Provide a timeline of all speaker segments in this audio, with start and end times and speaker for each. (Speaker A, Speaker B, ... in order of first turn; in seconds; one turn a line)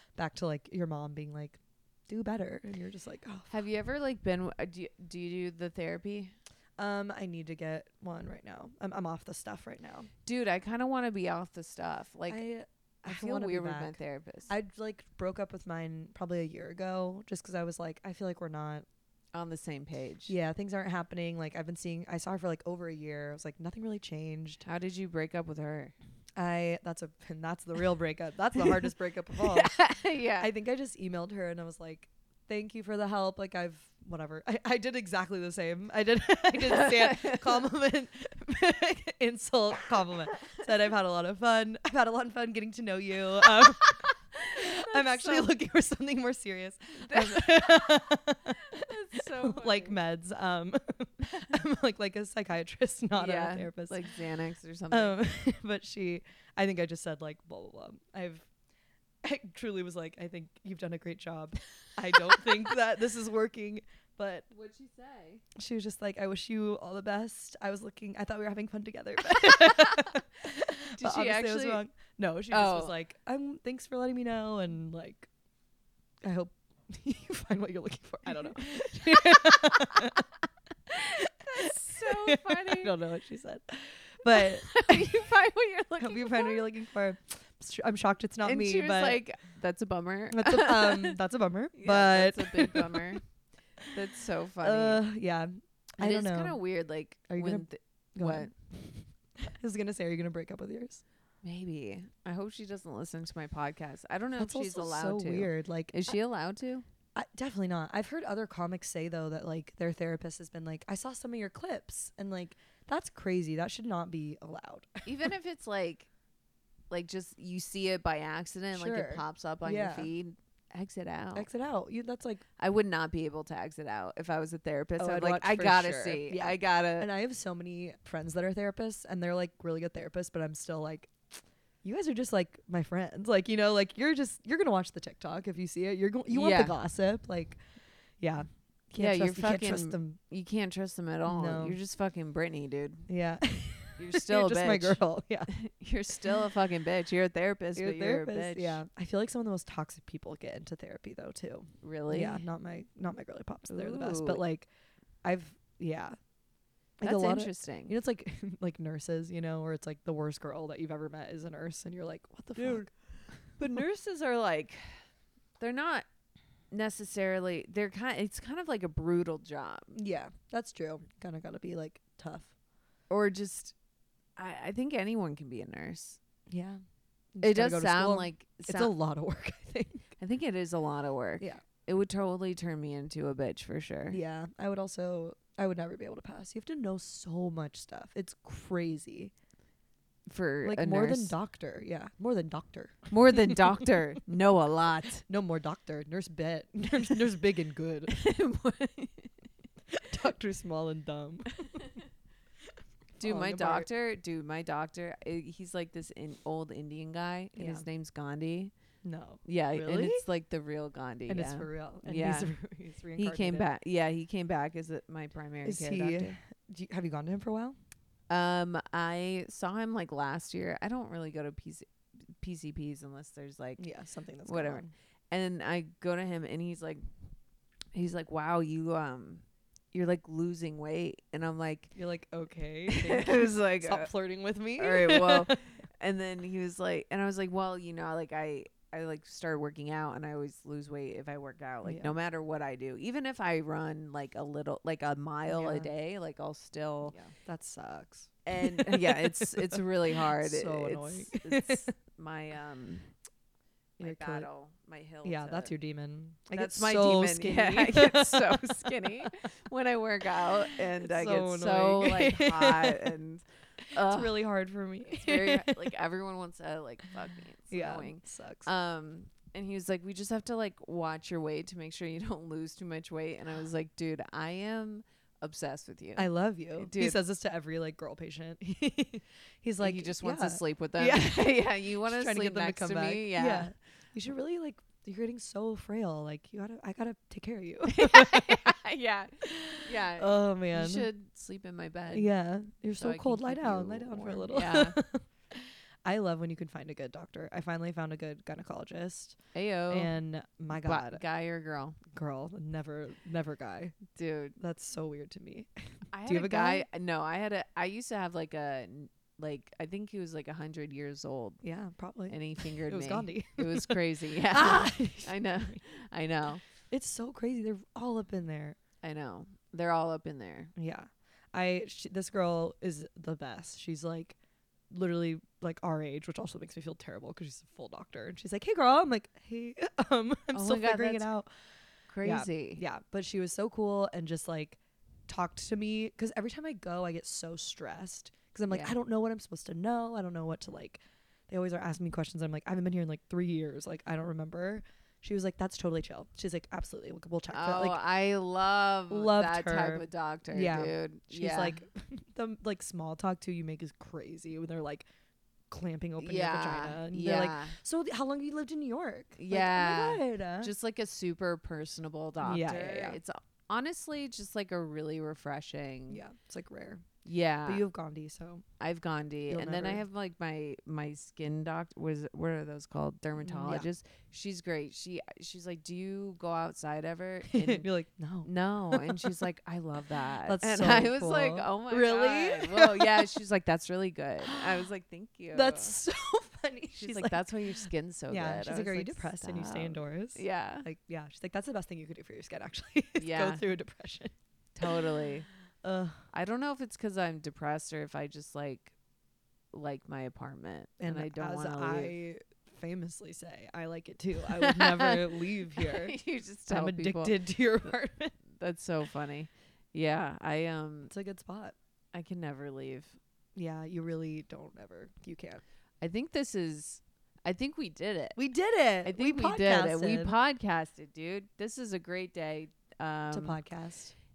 Speaker A: 0.1-3.5
Speaker B: 3.5-6.3
Speaker A: 6.8-10.1
Speaker B: 10.2-12.4
Speaker A: 12.3-18.9
Speaker B: 13.1-14.5
Speaker B: 19.3-20.3
Speaker A: 20.3-24.6
Speaker B: 24.6-25.9
Speaker A: 26.4-29.8
Speaker B: 29.4-30.5
Speaker A: 30.4-44.0
Speaker B: 36.6-37.6
Speaker B: 43.6-45.5
Speaker A: 44.5-54.0
Speaker B: 46.9-50.0
Speaker B: 53.1-55.2
Speaker A: 54.9-58.5
Speaker A: 59.2-64.5
Speaker B: 64.5-65.4
Speaker A: 65.5-75.3
Speaker B: 69.2-71.8
Speaker B: 72.5-72.9
Speaker A: 76.2-80.2
Speaker B: 78.3-80.2
Speaker A: 80.9-85.2
Speaker B: 80.9-82.9
Speaker B: 84.3-86.6
Speaker A: 86.0-89.2
Speaker B: 88.4-91.2
Speaker A: 90.3-93.2
Speaker B: 91.7-93.2
Speaker B: 93.9-95.0
Speaker A: 94.6-96.6
Speaker B: 96.0-98.5
Speaker A: 97.3-101.0
Speaker B: 101.4-106.8
Speaker A: 104.4-106.1
Speaker A: 107.1-115.3
Speaker B: 115.0-116.1
Speaker B: 116.9-121.5
Speaker A: 118.7-120.1
Speaker A: 121.3-122.4
Speaker B: 122.6-127.1
Speaker A: 125.0-137.6
Speaker B: 136.3-136.8
Speaker A: 138.2-140.2
Speaker B: 139.0-143.1
Speaker A: 141.2-141.8
Speaker A: 143.1-145.5
Speaker B: 144.0-148.8
Speaker A: 147.8-154.7
Speaker B: 151.8-152.4
Speaker B: 153.7-154.4
Speaker A: 155.2-156.2
Speaker A: 157.0-162.9
Speaker B: 157.0-157.9
Speaker B: 162.6-165.1
Speaker B: 165.6-166.1
Speaker B: 166.7-169.9
Speaker A: 169.9-172.5
Speaker B: 173.1-173.7
Speaker B: 174.4-176.2
Speaker A: 176.5-176.8
Speaker A: 177.3-180.1
Speaker B: 177.4-178.9
Speaker B: 180.2-184.2
Speaker A: 184.1-189.3
Speaker B: 190.3-191.3
Speaker A: 190.6-193.9
Speaker B: 193.1-195.2
Speaker A: 195.2-198.1
Speaker B: 198.1-199.5
Speaker A: 199.9-201.8
Speaker B: 201.6-202.0
Speaker A: 203.2-203.9
Speaker B: 203.2-208.7
Speaker A: 207.6-207.8
Speaker A: 209.0-210.2
Speaker B: 209.4-212.5
Speaker A: 211.3-213.7
Speaker B: 213.2-216.3
Speaker A: 215.6-217.8
Speaker B: 218.3-221.8
Speaker B: 222.4-223.8
Speaker A: 223.8-224.9
Speaker B: 224.4-227.0
Speaker B: 227.9-231.9
Speaker A: 231.9-235.6
Speaker B: 232.9-234.1
Speaker B: 234.8-247.2
Speaker A: 241.8-242.1
Speaker A: 245.5-245.9
Speaker A: 247.1-251.9
Speaker B: 248.4-253.1
Speaker A: 254.0-254.5
Speaker B: 254.0-255.7
Speaker A: 255.2-259.3
Speaker B: 256.5-264.4
Speaker A: 260.6-263.1
Speaker A: 263.9-265.9
Speaker B: 265.1-277.2
Speaker A: 267.7-268.7
Speaker A: 276.2-288.8
Speaker B: 279.8-283.7
Speaker B: 287.9-292.3
Speaker A: 289.4-291.1
Speaker A: 292.1-299.4
Speaker B: 292.9-295.0
Speaker B: 299.5-300.1
Speaker A: 299.9-301.2
Speaker B: 300.7-302.0
Speaker A: 302.1-304.0
Speaker B: 304.1-304.6
Speaker A: 304.6-305.7
Speaker B: 306.1-311.6
Speaker A: 306.2-306.9
Speaker A: 311.6-315.8
Speaker B: 312.3-316.6
Speaker A: 316.9-318.8
Speaker B: 319.0-320.7
Speaker A: 320.8-324.4
Speaker A: 324.9-331.5
Speaker B: 330.5-331.2
Speaker B: 332.1-332.8
Speaker A: 332.2-348.0
Speaker B: 347.5-351.8
Speaker A: 349.1-355.1
Speaker A: 355.7-360.7
Speaker B: 356.2-357.7
Speaker B: 359.4-366.2
Speaker A: 362.4-363.2
Speaker A: 366.1-367.0
Speaker B: 367.2-367.8
Speaker A: 367.6-368.6
Speaker B: 368.8-377.9
Speaker A: 369.5-370.0
Speaker A: 373.4-373.9
Speaker A: 377.5-379.4
Speaker B: 378.4-385.9
Speaker A: 380.4-383.4
Speaker A: 384.4-384.9
Speaker A: 385.5-394.3
Speaker B: 386.9-390.9
Speaker B: 393.2-393.6
Speaker B: 394.7-395.4
Speaker A: 395.8-396.2
Speaker B: 396.3-398.9
Speaker B: 399.7-402.1
Speaker A: 401.0-406.2
Speaker B: 404.6-407.4
Speaker A: 406.7-408.3
Speaker B: 408.6-411.1
Speaker A: 411.1-411.8
Speaker B: 412.1-413.2
Speaker A: 413.6-415.6
Speaker B: 416.0-418.4
Speaker A: 418.4-420.3
Speaker B: 419.0-423.6
Speaker A: 423.3-424.1